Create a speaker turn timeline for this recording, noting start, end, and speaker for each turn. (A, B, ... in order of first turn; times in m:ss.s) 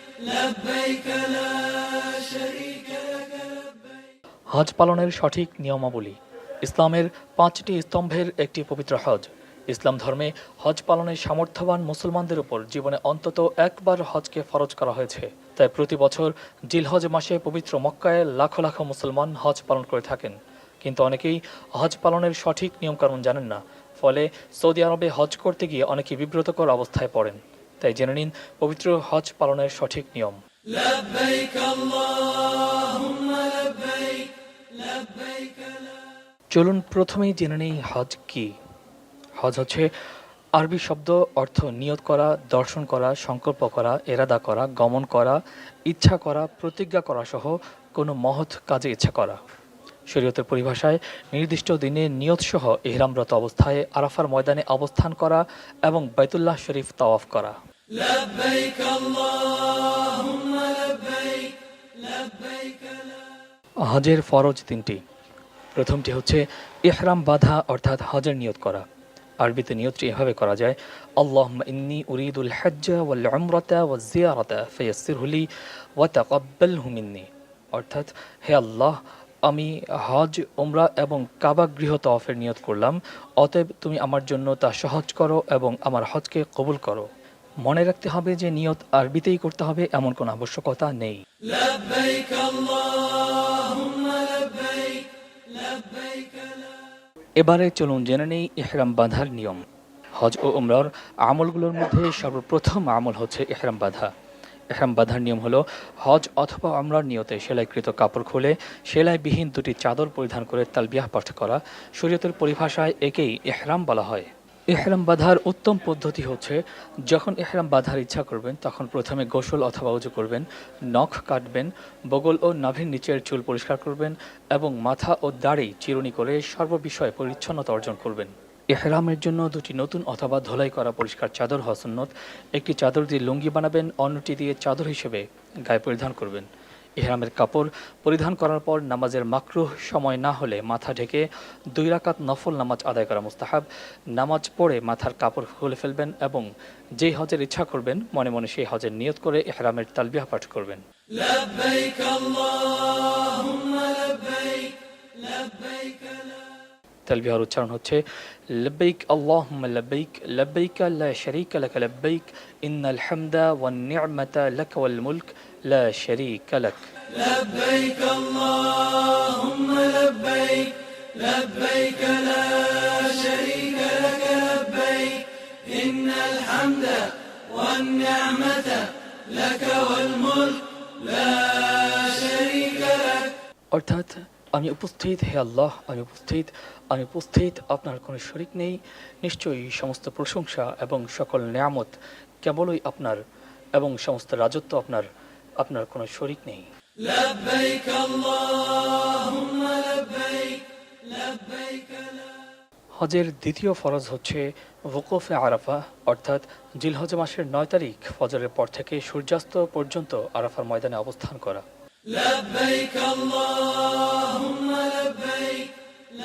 0:04.5-0:30.4 A
0:31.0-0:31.9 B
0:36.5-0:38.5 A
0:39.4-0:39.9 A
0:40.5-0:49.4 A
0:50.1-0:57.5 A
0:58.0-0:59.2 B
1:03.8-1:05.0 A
1:05.8-1:08.8 A
1:09.4-1:15.5 A
1:16.0-1:27.1 A
1:27.6-1:31.2 A
1:31.8-1:32.8 B
1:33.9-1:34.5 B
1:37.4-1:39.6 A
1:40.2-1:44.1 A
1:44.7-2:26.5 A
2:27.0-2:30.8 A
2:31.2-2:32.5 B
2:33.4-2:34.2 B
2:37.1-2:38.0 A
2:38.5-2:46.9 A
2:47.4-2:48.3 B
2:49.3-2:50.6 B
2:51.5-2:52.2 B
2:52.8-2:55.0 B
2:55.8-2:57.0 B
2:57.6-2:58.7 B
2:59.5-3:00.5 B
3:01.9-3:02.6 B
3:03.7-3:13.2 A
3:13.7-3:15.1 A
3:15.6-3:16.6 A
3:17.2-3:18.2 B
3:23.0-3:31.6 A
3:32.2-3:33.4 B
3:34.2-3:35.3 B